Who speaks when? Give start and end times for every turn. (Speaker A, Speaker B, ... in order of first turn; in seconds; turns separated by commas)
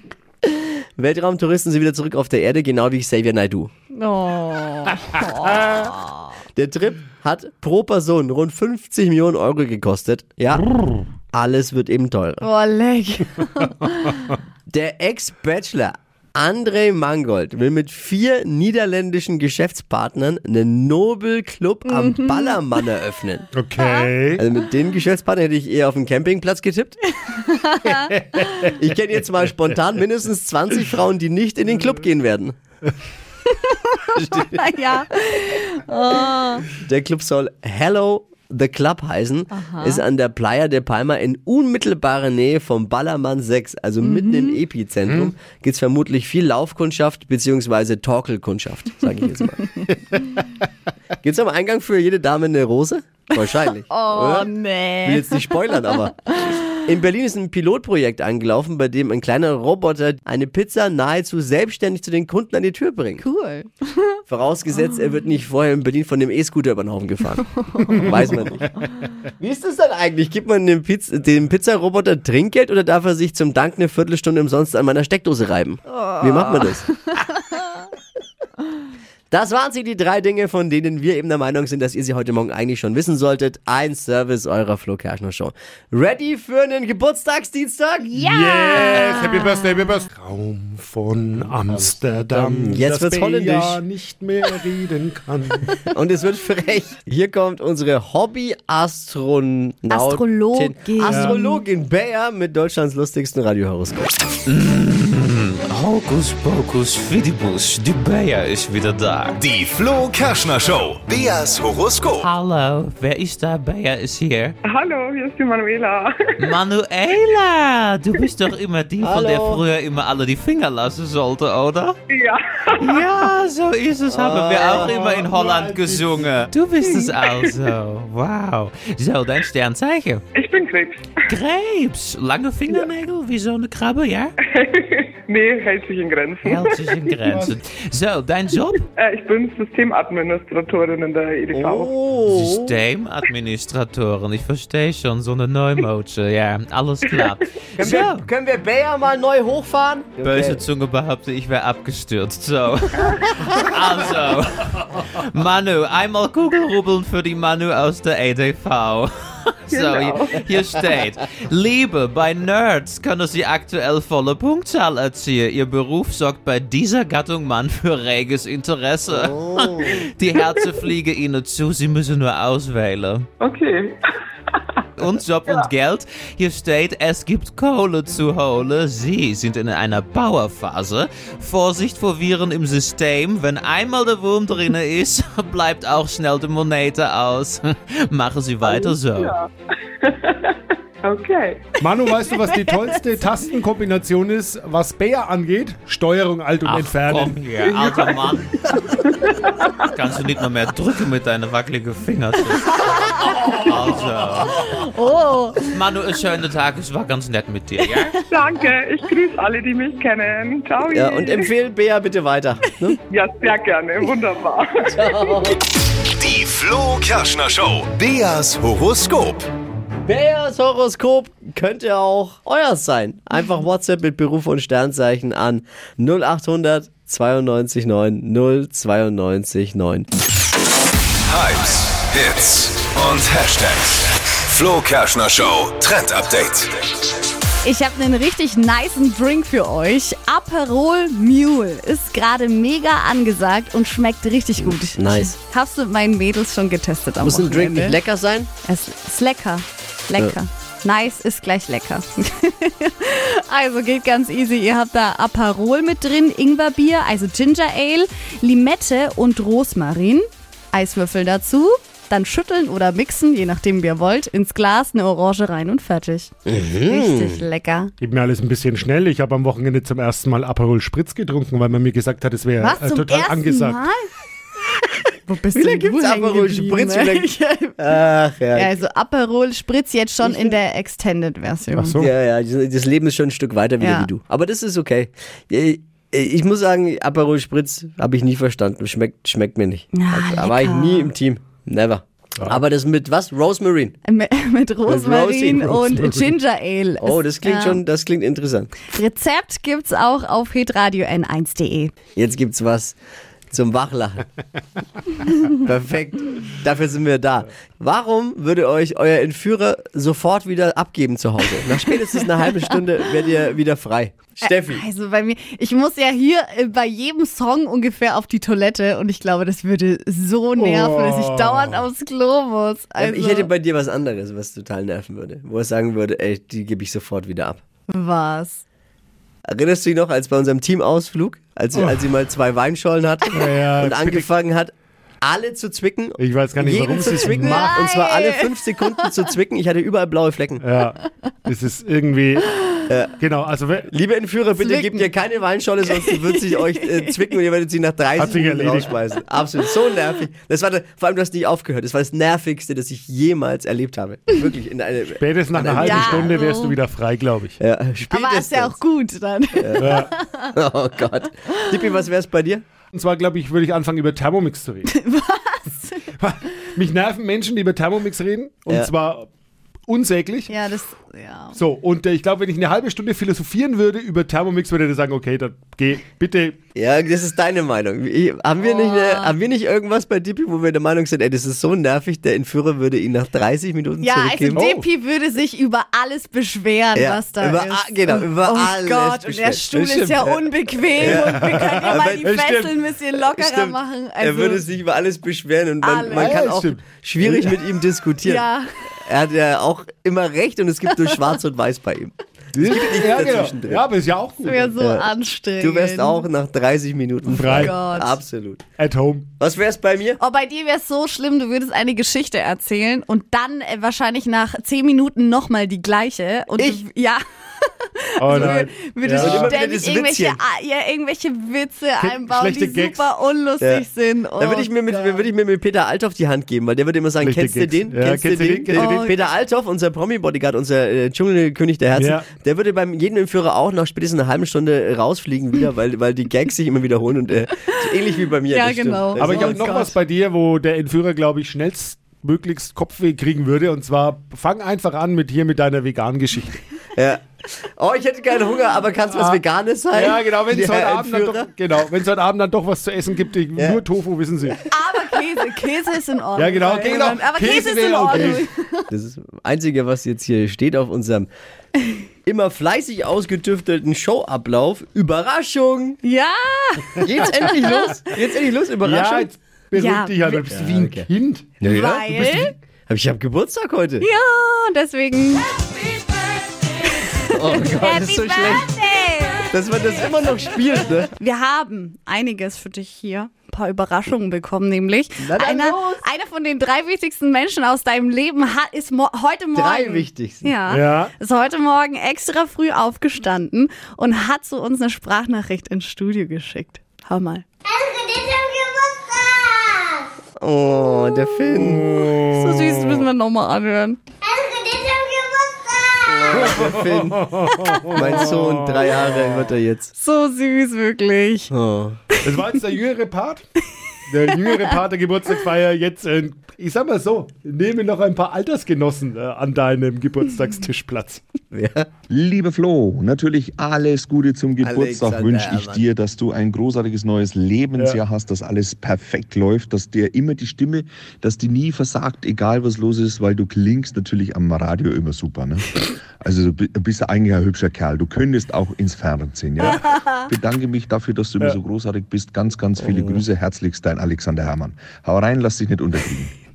Speaker A: 0.5-3.7, Speaker B: 3.9-6.1, Speaker A: 6.6-10.7, Speaker A: 11.3-12.5, Speaker B: 12.4-14.2, Speaker A: 14.7-23.5, Speaker B: 21.9-22.6, Speaker C: 23.5-24.4, Speaker B: 23.8-24.1, Speaker A: 24.4-27.0, Speaker B: 27.2-28.4, Speaker C: 28.0-28.5, Speaker A: 28.7-32.5, Speaker B: 33.5-36.7, Speaker A: 34.2-34.6, Speaker A: 36.7-49.7, Speaker B: 39.5-40.0, Speaker B: 44.0-44.6, Speaker A: 51.2-54.5, Speaker B: 53.9-56.6, Speaker A: 55.0-63.2, Speaker B: 63.2-64.2, Speaker A: 64.3-68.6, Speaker B: 67.6-68.4, Speaker A: 69.4-76.9, Speaker B: 75.9-77.8, Speaker A: 79.3-88.1, Speaker B: 88.1-89.7, Speaker C: 88.2-95.7, Speaker A: 91.7-93.8, Speaker A: 95.9-104.1, Speaker B: 99.9-101.5, Speaker C: 101.0-101.4, Speaker D: 104.5-109.5, Speaker E: 109.4-112.2, Speaker D: 112.2-114.6, Speaker F: 114.6-116.3, Speaker D: 116.4-122.0, Speaker A: 119.0-119.7, Speaker F: 122.1-123.0, Speaker D: 122.8-130.2, Speaker A: 124.1-125.0, Speaker C: 124.8-126.5, Speaker F: 130.3-131.0, Speaker D: 131.3-134.3, Speaker F: 134.5-137.2, Speaker D: 136.4-138.9, Speaker C: 137.2-137.6, Speaker F: 139.0-141.9, Speaker A: 141.5-142.8, Speaker D: 142.3-148.3, Speaker A: 147.8-150.6, Speaker D: 150.2-173.3, Speaker F: 159.7-160.4, Speaker A: 169.1-170.1, Speaker F: 170.4-170.7, Speaker F: 173.4-174.6, Speaker D: 175.0-189.4, Speaker F: 188.6-189.5, Speaker F: 190.0-191.8, Speaker C: 191.8-197.4, Speaker B: 192.7-193.0, Speaker D: 196.7-198.8, Speaker F: 197.7-198.2, Speaker F: 199.1-199.7, Speaker D: 199.9-204.7, Speaker B: 202.9-203.5, Speaker B: 204.5-205.7, Speaker D: 205.6-208.2, Speaker F: 208.3-211.4, Speaker A: 210.9-213.0, Speaker F: 213.1-215.1, Speaker A: 214.9-215.7, Speaker E: 216.0-219.5, Speaker A: 220.1-230.1, Speaker E: 231.3-236.8, Speaker B: 237.6-248.0, Speaker A: 244.6-245.4, Speaker A: 247.2-248.5, Speaker B: 248.6-267.9, Speaker A: 266.5-267.4, Speaker C: 268.0-273.8, Speaker B: 272.6-274.0, Speaker B: 274.8-277.8, Speaker A: 275.6-278.8, Speaker B: 278.5-282.0, Speaker A: 280.2-280.6, Speaker C: 281.7-282.1, Speaker A: 282.0-294.0, Speaker B: 283.8-284.1, Speaker B: 289.9-291.1, Speaker B: 294.1-297.8, Speaker A: 294.9-295.8, Speaker A: 297.0-298.7, Speaker B: 298.9-301.9, Speaker A: 302.2-303.0, Speaker A: 303.5-304.3, Speaker A: 305.5-314.9, Speaker B: 314.4-323.5, Speaker C: 320.6-321.9, Speaker A: 323.0-327.6, Speaker B: 327.9-328.6, Speaker A: 329.5-340.6, Speaker C: 331.8-332.0, Speaker C: 333.3-334.3, Speaker C: 336.2-337.7, Speaker B: 337.4-339.3, Speaker C: 340.6-342.6, Speaker A: 342.9-343.1, Speaker C: 343.2-343.9, Speaker A: 343.9-356.3, Speaker B: 344.6-345.1, Speaker B: 345.9-347.2, Speaker C: 348.2-348.9, Speaker C: 355.2-357.6, Speaker B: 355.8-356.8, Speaker A: 357.6-358.8, Speaker B: 358.1-360.5, Speaker A: 359.6-359.9, Speaker C: 359.8-360.1, Speaker A: 360.5-362.6, Speaker C: 362.9-364.9, Speaker B: 364.9-366.1, Speaker C: 366.1-369.3, Speaker C: 369.9-370.5, Speaker B: 370.5-371.6, Speaker C: 371.6-376.6, Speaker A: 376.8-384.7, Speaker B: 378.6-379.3, Speaker B: 384.0-394.6, Speaker C: 384.6-384.9, Speaker A: 386.9-390.5, Speaker A: 391.0-392.3, Speaker C: 391.0-392.8, Speaker A: 393.2-398.5, Speaker B: 395.8-396.4, Speaker C: 396.1-397.6, Speaker B: 398.2-398.7, Speaker A: 399.1-403.8, Speaker C: 402.6-404.7, Speaker B: 404.4-406.3, Speaker A: 404.8-408.6, Speaker C: 407.3-407.8, Speaker B: 407.5-408.2, Speaker C: 408.8-409.3, Speaker A: 409.4-410.2, Speaker B: 410.2-425.3, Speaker A: 416.6-416.8, Speaker C: 418.2-419.5, Speaker A: 419.2-420.4, Speaker C: 422.0-423.1, Speaker A: 423.6-423.9, Speaker A: 424.4-439.8, Speaker C: 427.2-428.9, Speaker B: 428.7-429.3, Speaker C: 432.0-432.3, Speaker B: 438.5-439.9, Speaker C: 439.2-446.6, Speaker A: 447.0-451.5, Speaker C: 449.1-449.4, Speaker C: 449.9-454.6, Speaker B: 454.7-458.9, Speaker C: 456.4-458.4, Speaker A: 458.9-461.3, Speaker A: 462.3-466.0, Speaker B: 466.0-468.2, Speaker A: 467.0-469.3, Speaker C: 468.8-471.6, Speaker B: 469.8-470.4, Speaker A: 470.5-471.1, Speaker A: 471.6-474.1, Speaker B: 471.6-472.5, Speaker B: 474.0-475.5, Speaker B: 476.8-479.5, Speaker A: 477.3-478.7, Speaker A: 479.5-481.1, Speaker B: 481.1-498.4, Speaker A: 485.2-486.0, Speaker A: 489.6-490.5, Speaker C: 490.7-491.1, Speaker A: 500.4-501.9, Speaker B: 502.0-504.0, Speaker B: 504.7-505.0, Speaker A: 506.1-507.4, Speaker C: 506.4-508.2, Speaker B: 507.5-508.0, Speaker A: 507.9-509.9, Speaker B: 509.9-511.5, Speaker A: 511.5-512.0, Speaker C: 512.2-513.4, Speaker C: 514.1-521.2, Speaker A: 521.5-521.9, Speaker G: 522.1-546.3, Speaker A: 524.6-525.9, Speaker A: 542.8-543.2